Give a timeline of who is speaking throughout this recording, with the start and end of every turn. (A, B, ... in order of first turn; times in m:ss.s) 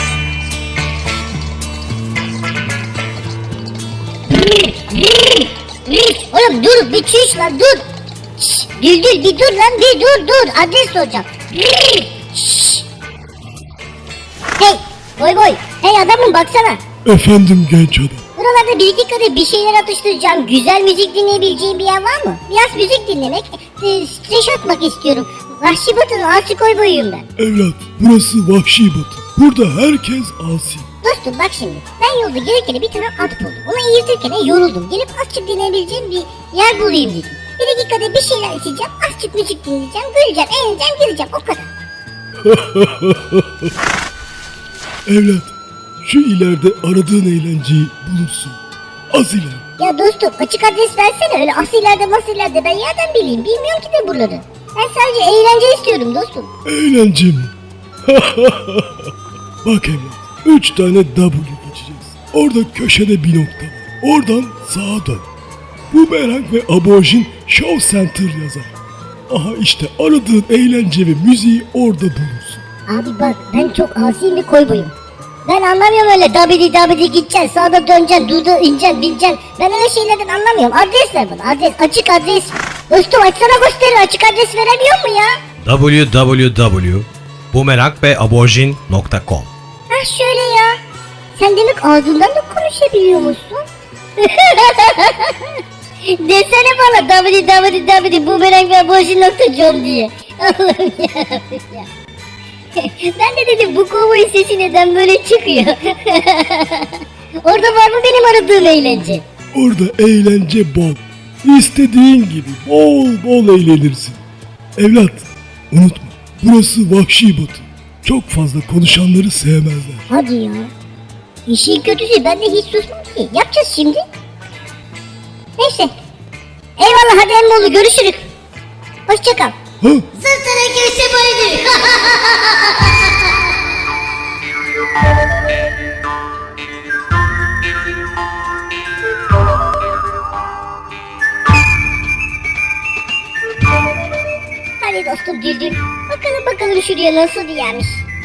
0:04.3-0:07.8 A
0:08.4-0:12.9 A
0:14.6-0:16.8 A
0:17.0-0:18.2 B
0:18.4-0:27.2 A
0:27.4-0:30.9 B
0:31.0-0:41.8 A
0:42.4-0:43.5 B
0:45.1-0:48.6 B
0:49.1-0:49.6 B
0:49.8-0:56.5 A
0:56.6-0:57.5 B
0:58.1-0:59.1 B
0:59.6-1:05.3 B
1:05.9-1:08.7 B
1:09.3-1:12.6 B
1:12.9-1:14.9 A
1:15.4-1:25.4 A
1:25.6-1:29.5 C
1:29.9-1:30.8 A
1:31.3-1:33.6 A
1:34.2-1:41.9 A
1:42.8-1:49.2 A
1:49.5-1:54.2 B
1:54.8-2:00.1 B
2:00.1-2:00.7 A
2:01.5-2:04.0 A
2:05.6-2:05.9 A
2:06.8-2:08.2 A
2:09.1-2:09.6 A
2:09.8-2:10.1 B
2:10.1-2:13.3 A
2:24.8-2:28.0 A